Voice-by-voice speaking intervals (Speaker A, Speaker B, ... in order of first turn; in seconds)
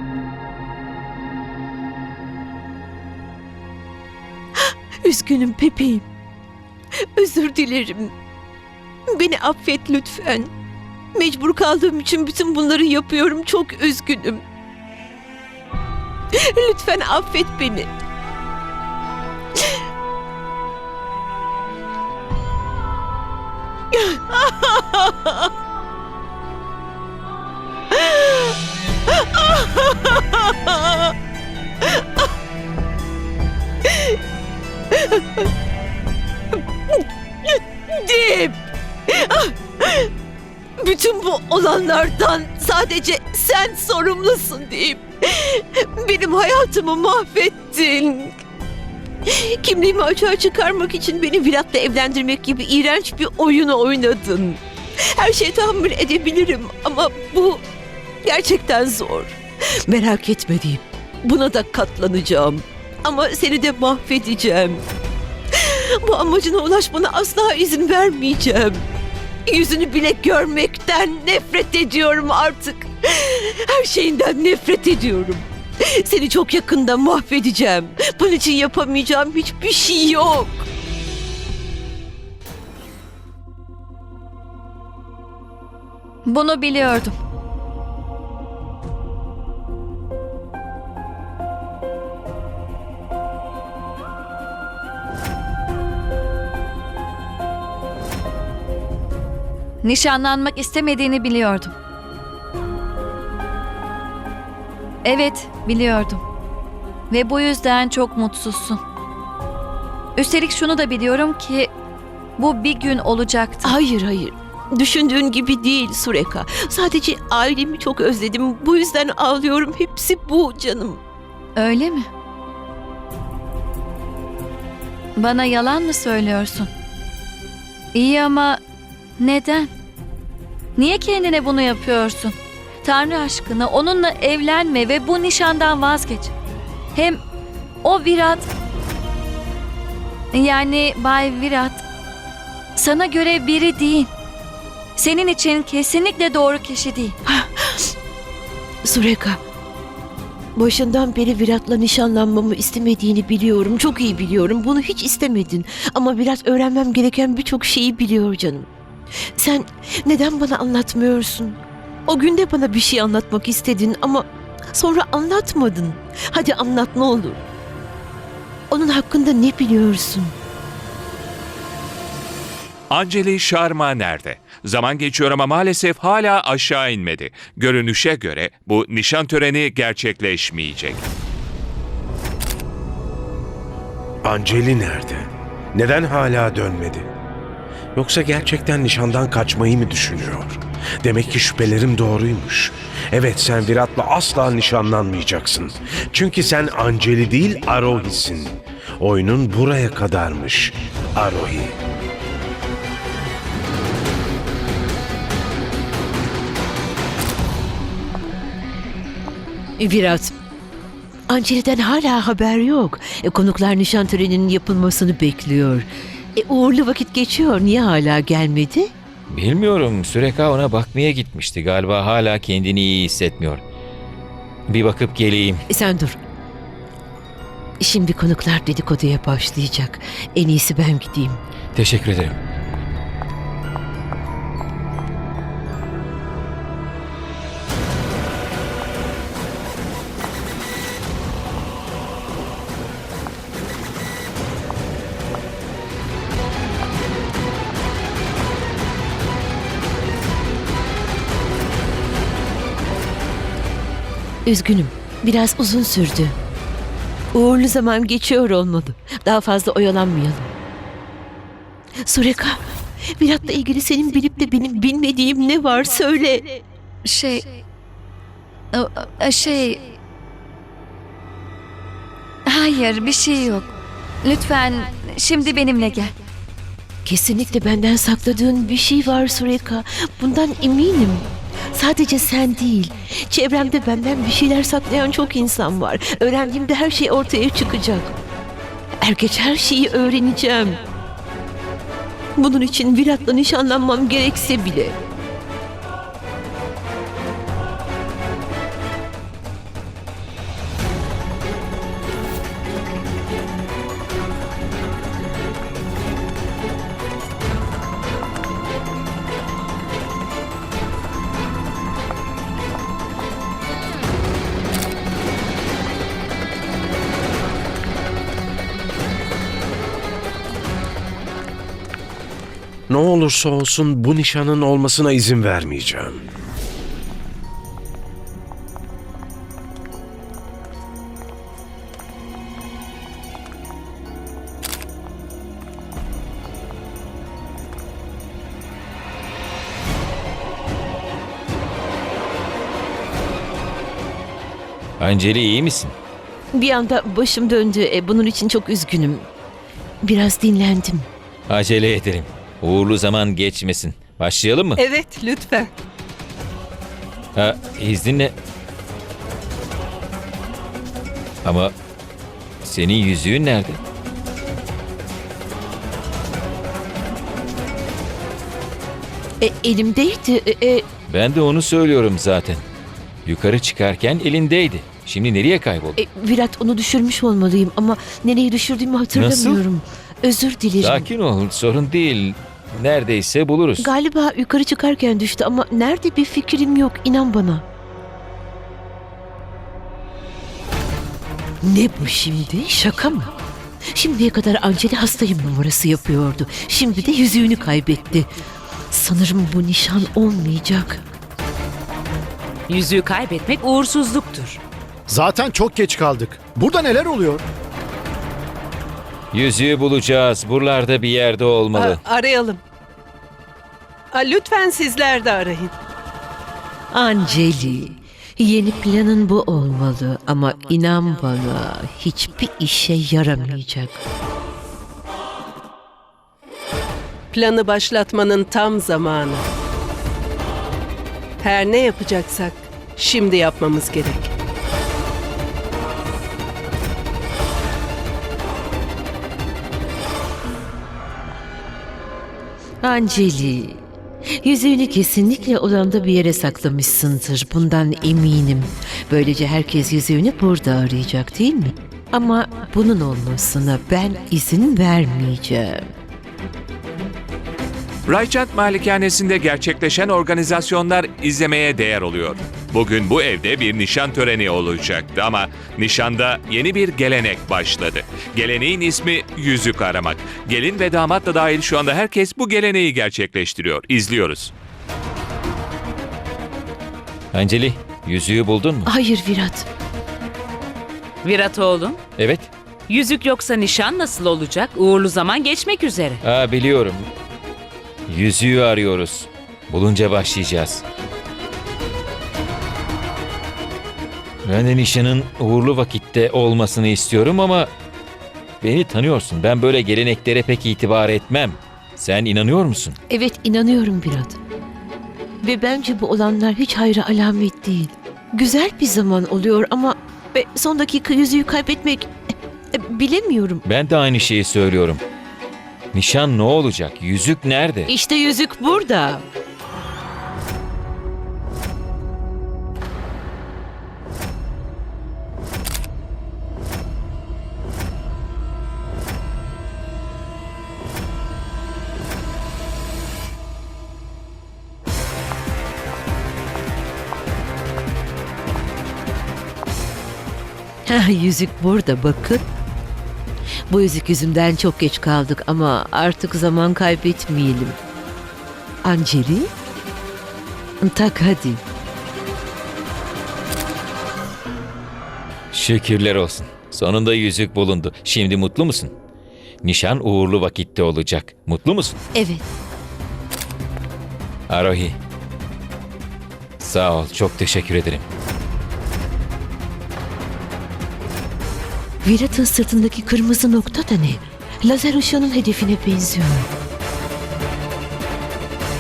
Speaker A: 5.0-6.1, 7.2-8.1, 9.1-10.5, 11.2-14.4, 16.3-17.9, 23.9-25.5, 27.9-28.6, 29.1-31.1, 33.9-34.2, 34.9-35.4, 37.5-40.1, 40.8-48.4, 49.3-54.6, 55.1-57.6, 58.2-64.8, 65.5-68.8, 69.5-80.7, 113.6-121.0, 147.3-147.9, 148.8-149.4, 150.6-158.7, 159.4-167.4, 168.7-170.3, 209.8-210.3, 211.3-218.9, 225.7-226.2, 227.8-231.4, 254.5-256.4, 257.3-260.5, 262.1-266.6, 277.1-288.1, 289.0-290.8, 292.4-294.9, 346.5-349.3, 350.0-351.1, 369.4-370.9, 376.0-381.1, 383.8-387.6, 391.6-393.3, 393.9-398.3, 398.9-401.1, 416.9-424.0, 442.8-443.8, 444.3-455.9, 478.9-479.7, 503.1-504.4, 505.4-512.1, 512.7-513.6, 517.9-519.2, 540.9-542.5, 543.7-547.8, 548.8-549.5, 550.8-551.6, 562.1-562.5, 572.0-576.5
Speaker B: 86.2-87.2, 99.8-101.7, 105.0-106.2, 107.1-108.8, 110.2-111.7, 112.4-113.8, 121.6-122.1, 125.2-126.7, 127.9-128.6, 129.2-129.7, 130.8-136.3, 136.9-137.2, 137.8-138.5, 140.3-141.8, 142.8-144.1, 145.0-147.2, 267.0-267.6, 268.7-269.8, 272.5-273.7, 274.2-276.1
Speaker C: 172.9-181.0, 458.1-474.5
Speaker D: 184.2-187.1, 188.0-201.8, 322.9-326.2
Speaker E: 219.3-223.6, 224.7-225.6, 231.7-232.4, 345.0-345.9, 351.5-354.8, 357.4-358.4, 361.4-361.7, 362.6-363.8, 371.1-372.6, 373.3-375.9, 379.1-379.6, 380.8-383.9, 409.3-412.0, 477.3-478.9, 482.2-482.5, 486.2-487.1, 488.1-490.8, 494.4-497.7, 498.6-503.0, 513.7-515.0, 515.9-517.9, 555.5-558.9, 559.6-562.0, 564.5-565.0, 566.6-568.0
Speaker F: 354.8-355.7, 411.7-412.6, 414.1-415.7, 427.3-429.4, 431.4-434.3
Speaker G: 402.7-404.6, 481.2-482.0, 482.9-486.2
Speaker H: 405.1-407.4